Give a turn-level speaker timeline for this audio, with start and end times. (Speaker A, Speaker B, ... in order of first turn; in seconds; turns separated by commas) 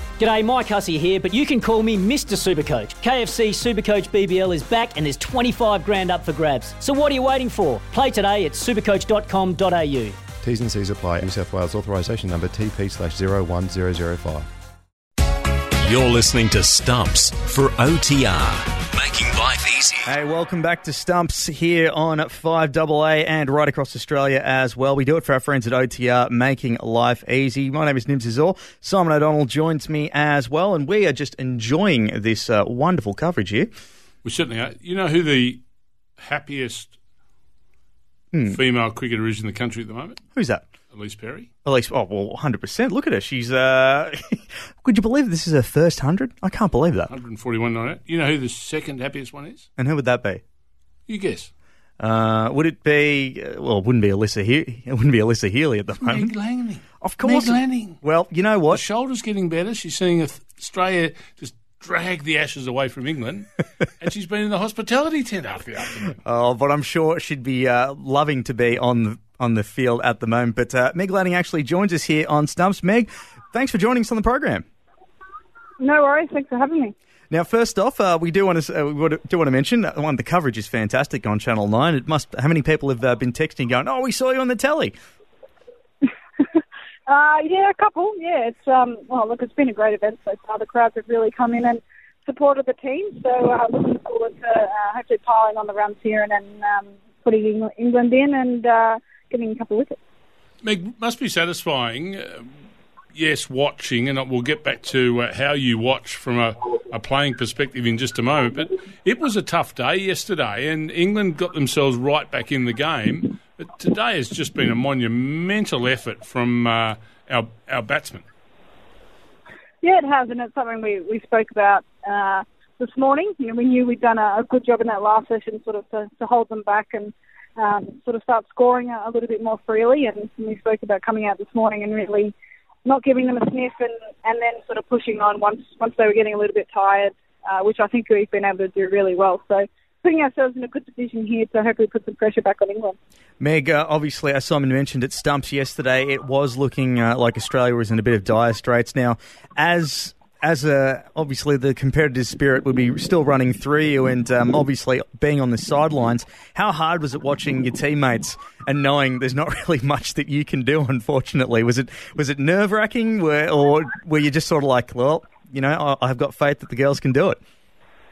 Speaker A: 0.2-10.2, Speaker B: 10.4-14.5, Speaker C: 15.8-20.1, Speaker D: 20.1-33.7, Speaker E: 34.2-35.6, Speaker E: 36.2-37.0, Speaker D: 38.3-38.6, Speaker E: 38.5-40.2, Speaker D: 40.4-40.6, Speaker E: 40.9-41.5, Speaker D: 41.6-47.1, Speaker E: 47.1-49.7, Speaker D: 49.8-50.4, Speaker E: 51.1-51.5, Speaker D: 52.0-56.3, Speaker E: 56.0-58.0, Speaker D: 57.0-58.8, Speaker E: 58.7-63.5, Speaker E: 64.0-66.2, Speaker D: 66.2-74.6, Speaker F: 75.8-76.9, Speaker D: 77.3-84.9, Speaker F: 87.1-100.0, Speaker E: 100.6-102.5, Speaker E: 103.1-118.2, Speaker F: 119.8-143.0, Speaker D: 143.4-167.4